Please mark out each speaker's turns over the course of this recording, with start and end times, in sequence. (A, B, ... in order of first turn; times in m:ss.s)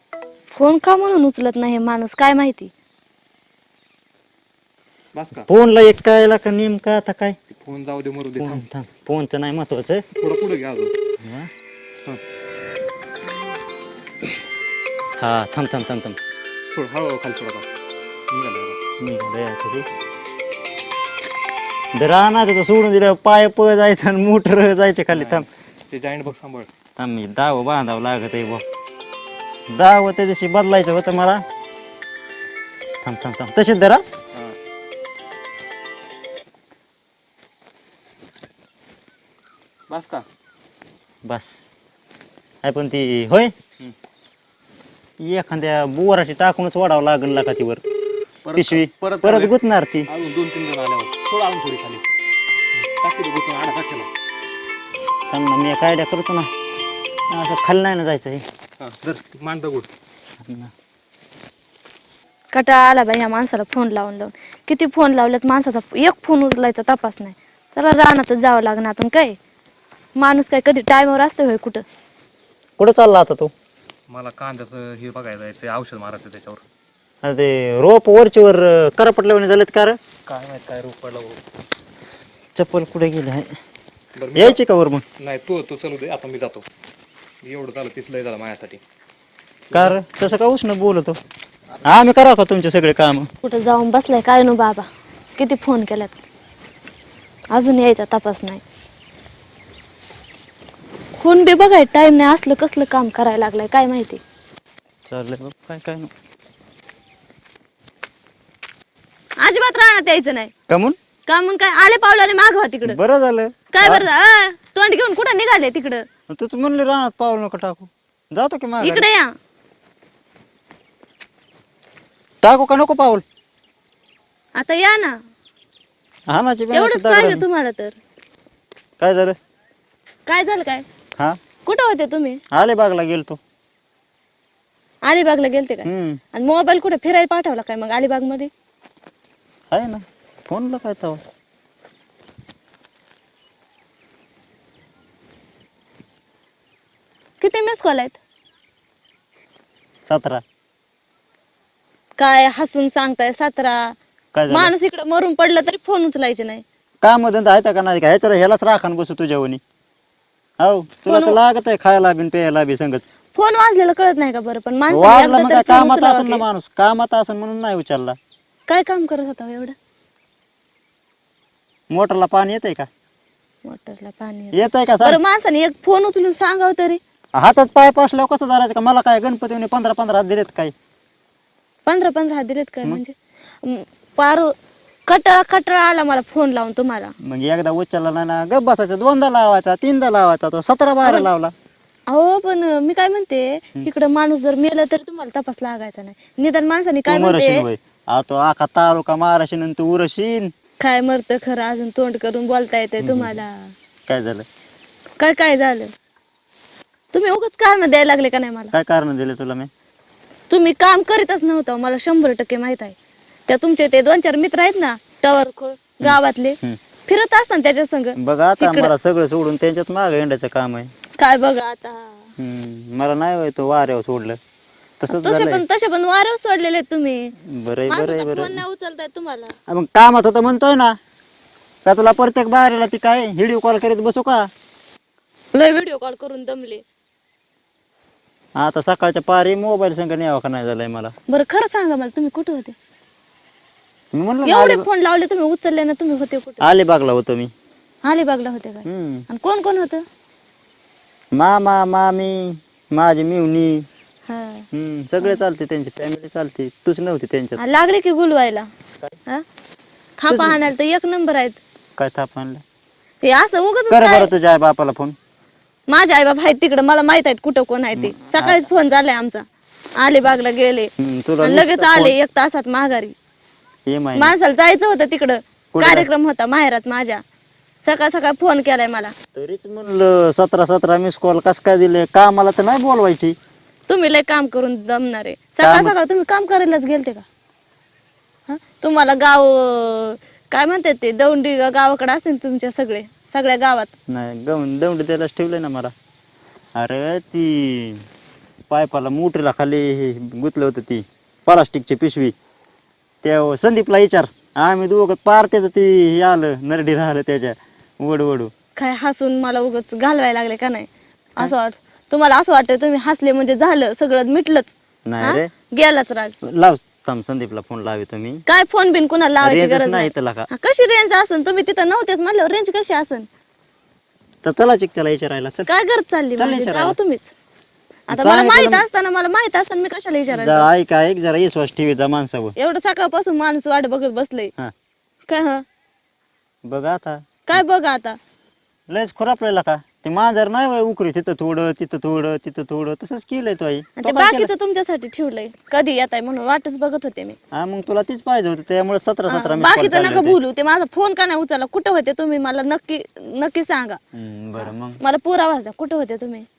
0:00.5-0:02.7 A
0:05.2-0:05.5 B
0:05.5-0:07.4 C
0:07.5-0:08.6 B
0:08.4-0:10.0 C
0:10.2-0:10.9 B
0:11.2-0:11.5 C
0:15.2-0:16.2 C
0:16.7-0:17.7 B
0:18.3-0:18.8 B
0:19.0-0:19.9 C
0:21.9-0:25.5 C
0:25.1-0:26.7 B
0:27.0-0:28.6 C
0:29.7-0:31.4 C
0:33.0-0:34.0 C
0:39.9-0:40.2 B
0:41.2-0:41.6 C
0:42.6-0:43.5 C
0:45.2-0:47.8 C
0:48.4-0:52.0 B
0:48.5-0:50.1 C
0:52.8-0:54.1 B
0:55.3-0:56.5 C
0:57.3-0:58.4 C
0:58.8-0:59.9 B
1:00.4-1:00.7 C
1:02.5-1:09.4 A
1:10.2-1:11.8 A
1:12.8-1:13.5 C
1:14.1-1:16.6 B
1:17.2-1:20.0 C
1:20.3-1:21.4 B
1:22.6-1:23.5 C
1:24.2-1:24.6 B
1:24.4-1:25.0 C
1:25.2-1:26.7 B
1:27.4-1:28.8 B
1:29.7-1:31.2 C
1:29.7-1:30.0 B
1:31.8-1:33.3 C
1:33.4-1:36.1 A
1:37.5-1:38.6 A
1:41.2-1:44.2 A
1:45.1-1:46.1 C
1:49.4-1:50.5 A
1:50.7-1:51.0 C
1:51.3-1:53.0 A
1:52.8-1:54.1 C
1:53.7-1:56.1 A
1:56.3-1:59.1 C
1:58.8-1:59.3 A
2:02.4-2:03.2 C
2:04.6-2:05.2 A
2:06.3-2:07.4 C
2:06.7-2:08.0 A
2:09.0-2:09.4 C
2:10.3-2:10.8 A
2:11.6-2:12.4 A
2:12.5-2:13.4 C
2:15.1-2:18.5 A
2:15.8-2:16.2 C
2:19.7-2:21.2 C
2:27.4-2:28.2 A
2:30.1-2:30.4 C
2:32.2-2:34.0 A
2:34.3-2:34.7 C
2:34.5-2:36.6 A
2:37.0-2:39.6 C
2:40.6-2:43.0 C
2:41.1-2:41.4 A
2:43.4-2:46.4 A
2:44.9-2:48.2 C
2:48.7-2:49.8 A
2:51.9-2:52.9 C
2:53.6-2:57.0 A
2:54.5-2:55.2 C
2:57.4-3:00.7 C
3:01.9-3:04.5 A
3:05.1-3:07.2 A
3:07.2-3:11.5 C
3:11.0-3:11.3 A
3:12.1-3:17.7 A
3:17.1-3:20.5 C
3:20.8-3:23.7 A
3:23.0-3:23.4 C
3:24.1-3:24.5 C
3:25.2-3:25.9 A
3:27.1-3:28.7 A
3:28.7-3:29.7 C
3:30.5-3:33.0 A
3:33.5-3:38.9 A
3:36.0-3:36.8 C
3:38.2-3:40.9 C
3:41.2-3:42.3 A
3:42.4-3:44.4 C
3:45.0-3:45.6 C
3:45.1-3:47.4 A
3:47.4-3:48.6 C
3:47.9-3:49.6 A
3:49.7-3:51.0 C
3:51.8-3:54.5 C
3:55.5-3:56.8 A
3:58.6-4:01.1 C
4:01.3-4:02.8 A
4:04.1-4:04.8 C
4:04.4-4:06.6 A
4:06.6-4:07.5 C
4:08.0-4:10.0 A
4:08.8-4:09.2 C
4:11.3-4:13.9 C
4:14.3-4:14.7 A
4:14.7-4:17.6 C
4:17.6-4:18.7 A
4:20.2-4:21.6 A
4:20.3-4:20.7 C
4:22.0-4:22.6 C
4:23.2-4:24.3 A
4:23.9-4:25.2 C
4:25.9-4:29.4 A
4:28.0-4:28.6 C
4:30.0-4:33.2 A
4:31.0-4:32.2 C
4:33.9-4:34.3 C
4:34.2-4:37.2 A
4:35.7-4:36.1 C
4:37.8-4:39.1 A
4:39.4-4:43.4 C
4:43.9-4:47.2 A
4:45.6-4:45.9 C
4:48.5-4:53.9 A
4:54.1-4:55.9 C
4:56.8-4:58.0 C
4:58.7-5:02.4 C
5:03.2-5:08.5 C
5:08.8-5:16.4 A
5:15.1-5:15.5 C
5:16.4-5:18.4 C
5:18.5-5:23.3 A
5:19.4-5:20.5 C
5:24.4-5:25.7 C
5:25.7-5:27.3 A
5:26.4-5:27.0 C
5:28.1-5:30.7 A
5:28.1-5:28.8 C
5:30.3-5:32.5 C
5:32.6-5:34.5 A
5:35.3-5:35.6 A
5:36.7-5:37.6 C
5:37.5-5:38.2 A
5:38.9-5:44.5 C
5:44.0-5:47.4 A
5:47.5-5:50.4 C
5:49.3-5:54.0 A
5:54.1-5:55.0 C
5:54.6-5:56.5 A